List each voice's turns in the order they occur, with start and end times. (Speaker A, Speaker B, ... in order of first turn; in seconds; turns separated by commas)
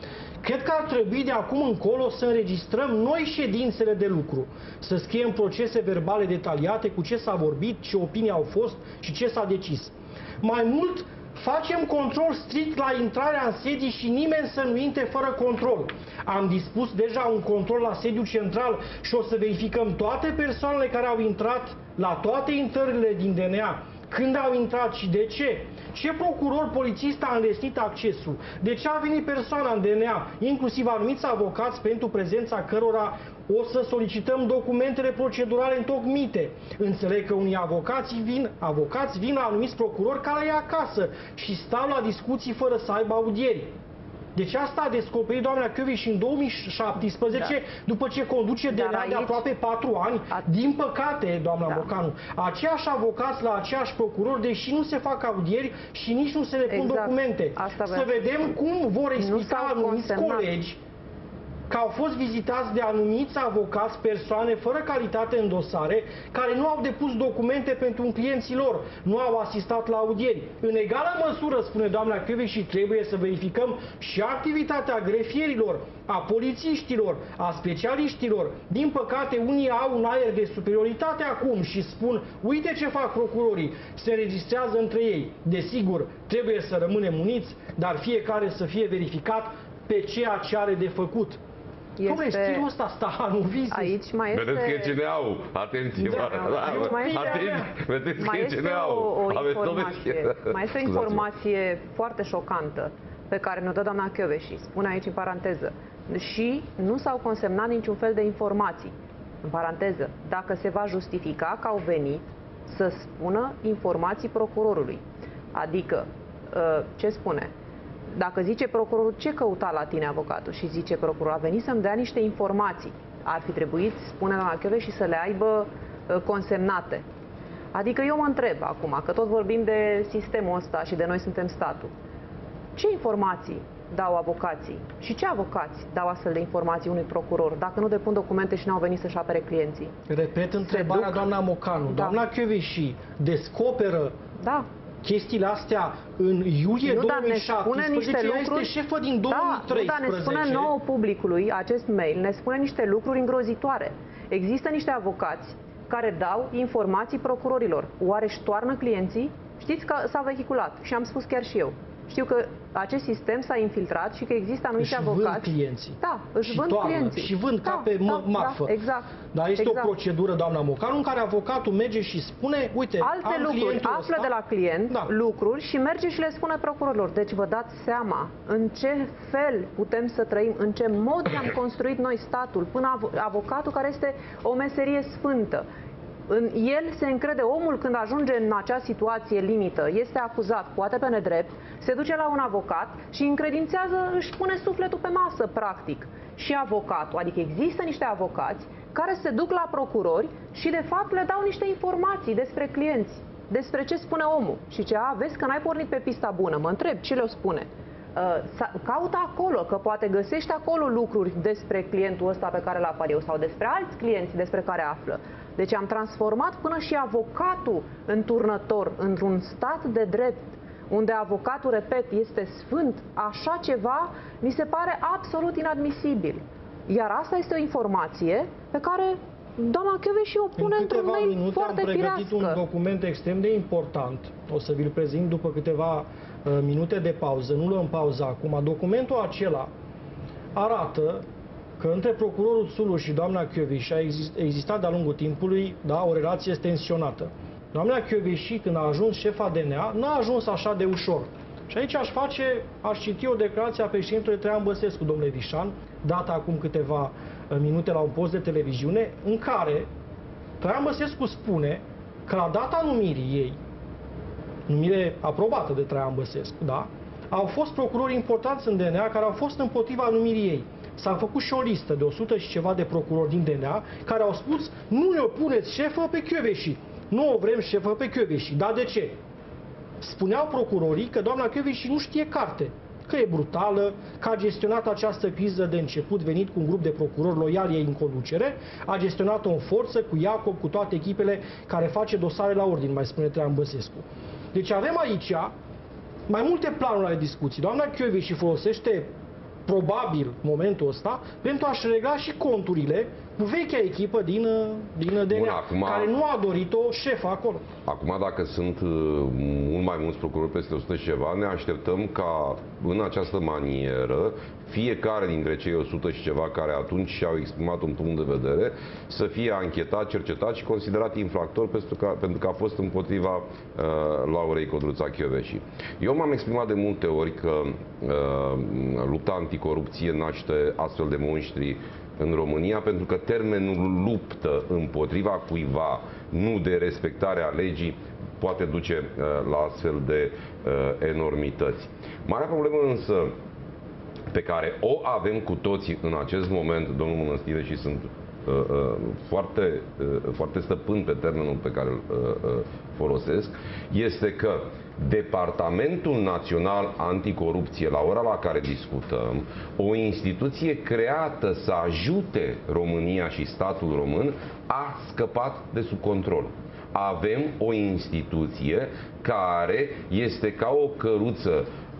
Speaker A: 0.4-43.8, Speaker A: 44.4-60.8, Speaker B: 48.7-49.4, Speaker B: 56.7-58.2, Speaker B: 59.2-60.5, Speaker A: 61.7-91.4, Speaker B: 92.0-92.7, Speaker A: 92.1-94.0, Speaker B: 93.7-95.0, Speaker C: 94.3-101.2, Speaker B: 96.0-97.6, Speaker A: 96.6-97.7, Speaker B: 98.2-115.0, Speaker B: 115.5-117.5, Speaker B: 118.1-127.0, Speaker B: 127.7-131.9, Speaker B: 132.8-139.9, Speaker A: 140.1-144.2, Speaker B: 140.7-141.3, Speaker B: 141.9-142.2, Speaker B: 144.4-144.7, Speaker A: 145.0-150.7, Speaker B: 146.8-148.7, Speaker B: 149.3-169.9, Speaker A: 164.8-168.7, Speaker A: 169.3-174.3, Speaker B: 173.0-185.7, Speaker B: 186.3-232.6, Speaker A: 230.6-239.7, Speaker A: 240.5-241.2, Speaker A: 241.8-259.9, Speaker A: 260.6-263.6, Speaker A: 264.7-279.2, Speaker A: 280.0-295.5, Speaker A: 296.3-299.1, Speaker A: 299.7-307.7, Speaker C: 305.3-306.1, Speaker C: 307.9-343.3, Speaker C: 344.3-371.7